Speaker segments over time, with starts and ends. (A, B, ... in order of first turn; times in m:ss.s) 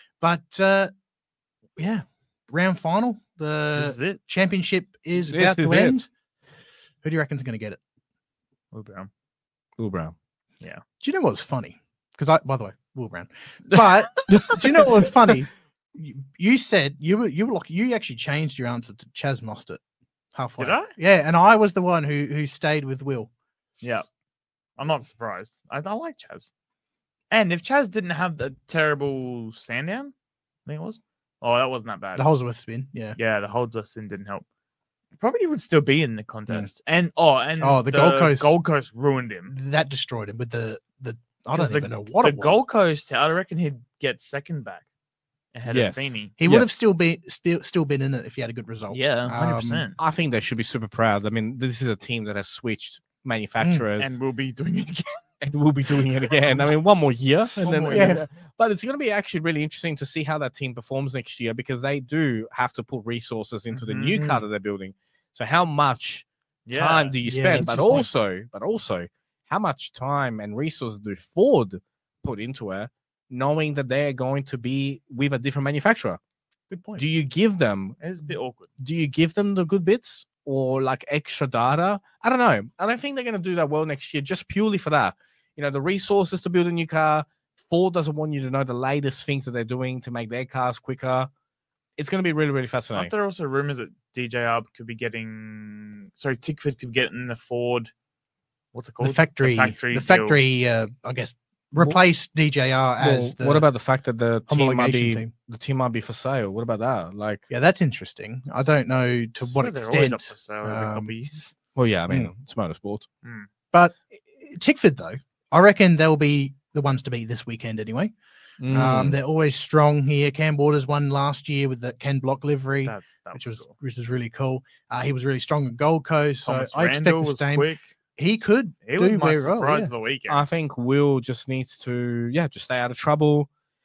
0:00.2-0:00.9 A
0:01.8-0:06.1 A
0:03.7-0:04.2 B
0:05.2-0:06.0 C
0:07.0-0:07.8 A
0:08.7-0:09.1 B
0:09.8-0:10.1 C
0:11.0-0:19.8 A
0:20.3-0:23.3 A
0:20.6-0:20.9 B
0:24.8-0:26.5 B
0:27.3-0:30.1 B
0:30.6-0:32.3 B
0:32.1-0:33.2 A
0:33.2-0:34.4 B
0:35.2-0:39.6 B
0:37.6-0:38.6 A
0:39.5-0:42.6 A
0:41.5-0:44.8 B
0:45.5-0:46.4 B
0:45.7-0:46.7 C
0:46.4-0:49.8 A
0:48.9-0:50.0 B
0:50.0-0:54.2 C
0:53.6-0:53.9 A
0:54.0-0:55.2 B
0:55.4-1:16.2 C
0:56.2-0:56.6 B
0:57.6-0:58.2 B
0:57.9-0:58.2 A
1:03.7-1:04.4 B
1:06.6-1:07.7 B
1:07.2-1:08.1 A
1:16.7-1:17.0 A
1:17.0-1:18.0 C
1:18.0-1:18.7 B
1:18.8-1:31.3 C
1:32.0-1:33.1 C
1:32.9-1:37.9 B
1:38.7-1:40.4 B
1:39.0-1:43.7 A
1:43.0-1:47.4 C
1:44.5-1:45.3 A
1:47.5-1:51.1 A
1:49.4-1:51.6 B
1:51.7-1:53.0 C
1:52.1-1:52.3 A
1:53.2-1:53.5 B
1:53.7-1:58.1 A
1:58.6-1:59.2 C
1:58.7-2:09.9 A
2:02.8-2:03.7 B
2:06.4-2:07.8 B
2:08.8-2:10.4 B
2:10.3-2:13.5 C